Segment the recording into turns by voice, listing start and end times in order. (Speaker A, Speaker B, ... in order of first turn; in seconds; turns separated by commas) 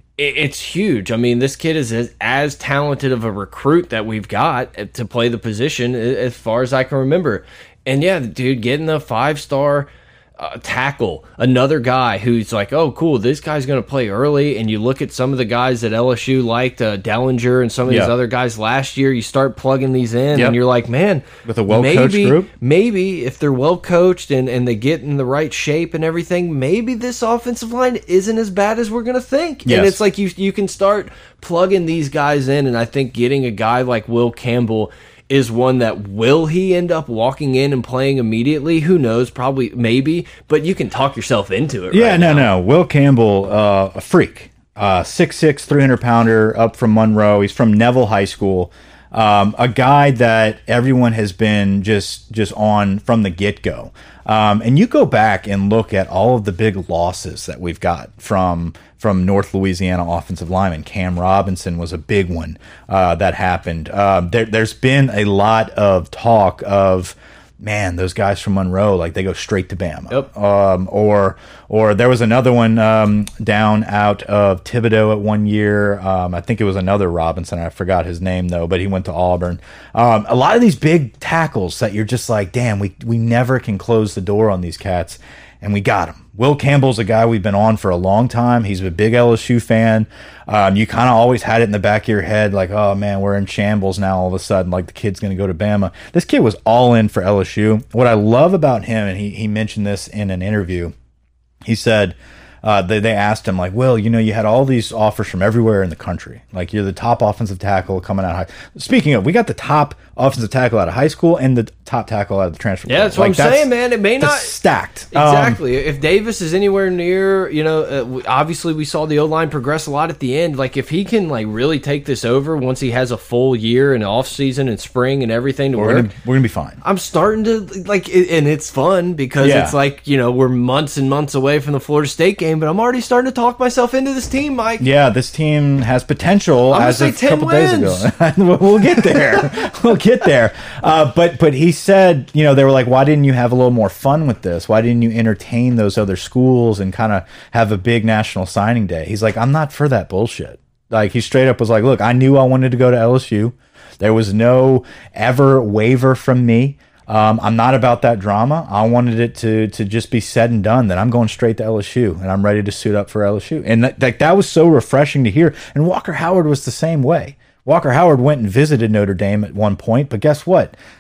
Speaker A: 0.2-42.5, Speaker B: 17.9-18.1, Speaker B: 21.4-22.5, Speaker B: 29.6-30.0, Speaker B: 41.9-100.9, Speaker B: 101.7-115.6, Speaker A: 112.9-114.5, Speaker A: 115.1-126.1, Speaker B: 125.7-126.8, Speaker A: 126.8-134.9, Speaker B: 129.4-129.7, Speaker B: 134.8-170.7, Speaker A: 136.7-138.1, Speaker A: 138.9-139.6